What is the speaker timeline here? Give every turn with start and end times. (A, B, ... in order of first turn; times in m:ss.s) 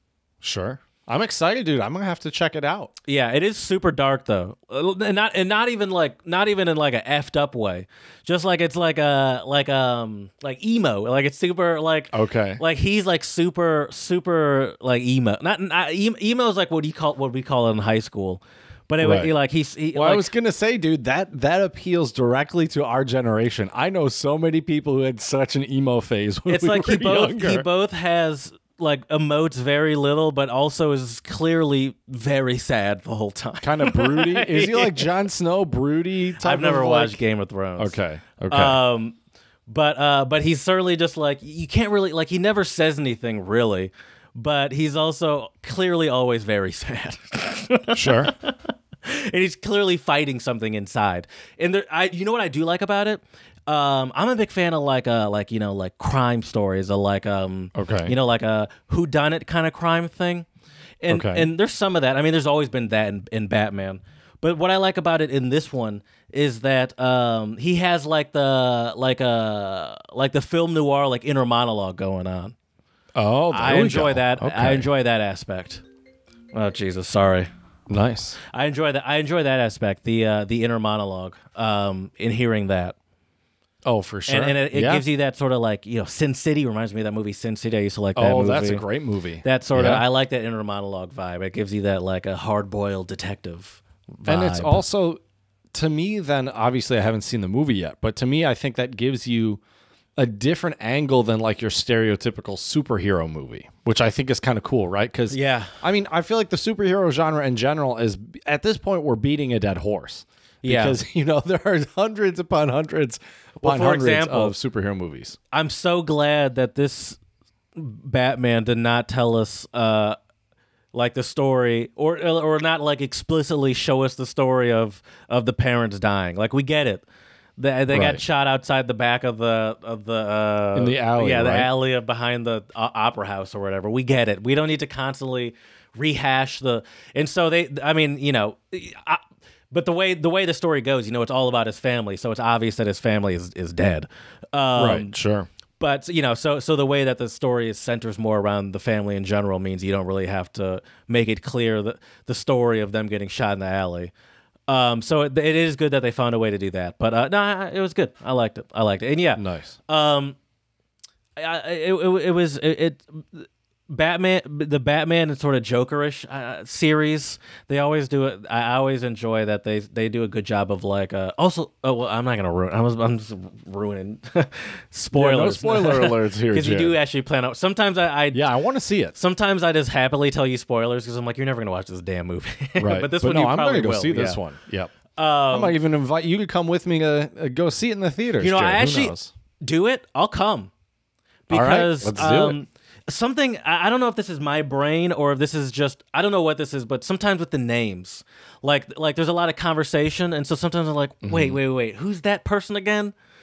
0:00.4-0:02.9 A
0:03.0-0:20.3 B
0:12.1-0:12.6 A
0:19.0-0:19.3 A
0:19.9-0:27.7 A
0:26.5-0:35.1 B
0:33.6-0:37.2 A
0:36.4-0:38.0 B
0:37.8-0:38.8 A
0:38.5-0:39.2 B
0:39.7-1:00.5 B
0:47.9-0:48.3 A
0:57.8-0:58.1 A
1:01.0-1:12.6 B
1:01.1-1:01.5 A
1:13.2-1:14.9 A
1:13.5-1:15.8 B
1:16.5-1:17.5 B
1:17.9-1:18.4 A
1:18.5-1:23.0 B
1:23.9-1:25.0 A
1:24.3-1:28.8 B
1:28.2-1:30.0 A
1:29.4-1:34.8 B
1:34.2-1:35.2 A
1:35.7-1:39.6 A
1:40.2-1:55.4 A
1:45.3-1:45.8 B
1:50.6-1:51.0 B
1:53.6-1:54.6 B
1:55.5-1:57.2 B
1:57.8-2:00.2 B
2:00.9-2:07.0 B
2:07.6-2:25.1 B
2:07.9-2:08.2 A
2:10.8-2:11.7 A
2:24.8-2:25.5 A
2:25.8-2:34.1 B
2:34.7-2:40.4 B
2:39.4-2:39.8 A
2:41.4-2:58.5 B
2:55.1-2:57.0 A
2:58.3-2:59.2 A
2:59.1-3:04.4 B
3:02.8-3:05.0 A
3:05.2-3:05.8 B
3:05.5-3:09.3 A
3:08.4-3:10.7 B
3:11.5-3:23.1 B
3:11.5-3:12.6 A
3:21.2-3:21.6 A